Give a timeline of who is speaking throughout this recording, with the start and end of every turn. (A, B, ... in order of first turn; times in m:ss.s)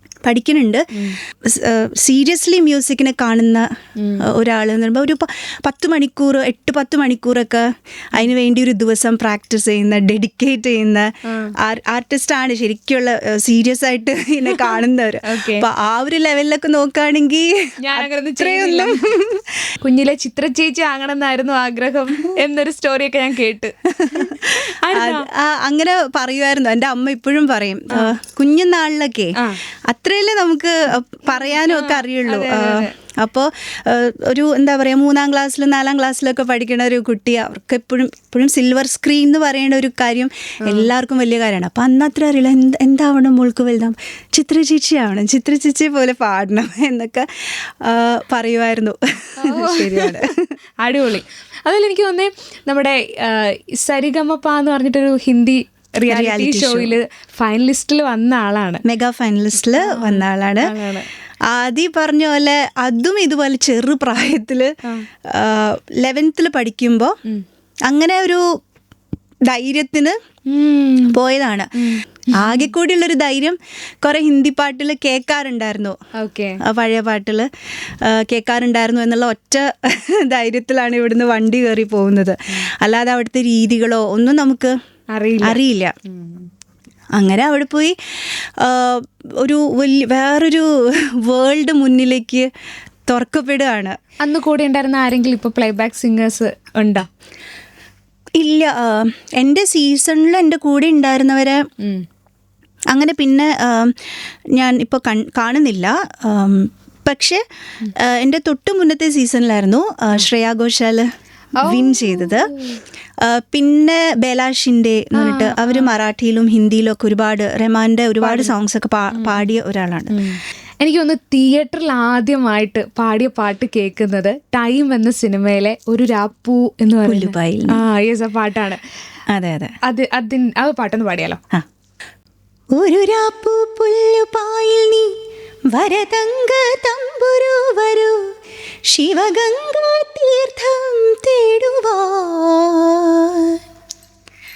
0:00.2-0:19.7 A
0:04.0-0:04.2 B
0:11.2-0:11.5 B
0:14.5-0:15.6 B
0:17.8-0:19.0 B
0:19.8-0:25.3 B
0:23.9-0:50.5 A
0:31.3-0:32.9 B
0:40.6-0:40.9 B
0:49.4-0:50.2 B
0:50.8-0:58.8 B
0:56.0-0:57.0 A
0:58.8-1:00.7 A
0:59.8-1:01.1 B
1:01.5-1:07.2 A
1:07.8-1:08.4 A
1:09.5-1:10.2 A
1:10.5-1:11.2 B
1:11.1-1:11.7 A
1:11.8-1:12.6 B
1:12.3-1:16.0 A
1:16.2-1:16.6 B
1:16.6-1:17.5 A
1:18.0-1:24.8 A
1:25.1-1:26.5 B
1:25.4-1:25.9 A
1:27.2-1:32.5 A
1:33.1-1:34.0 A
1:34.2-1:37.1 B
1:38.4-1:41.7 A
1:41.8-1:42.0 B
1:42.9-1:51.1 A
1:51.6-1:52.5 A
1:51.6-1:52.8 B
1:53.2-2:00.2 A
1:55.2-1:55.9 B
1:58.2-1:58.5 B
1:59.1-1:59.4 B
2:00.1-2:08.8 B
2:07.0-2:07.8 A
2:09.3-2:09.8 A
2:09.8-2:11.4 B
2:12.7-2:15.2 A
2:15.7-2:18.3 A
2:18.9-2:23.6 A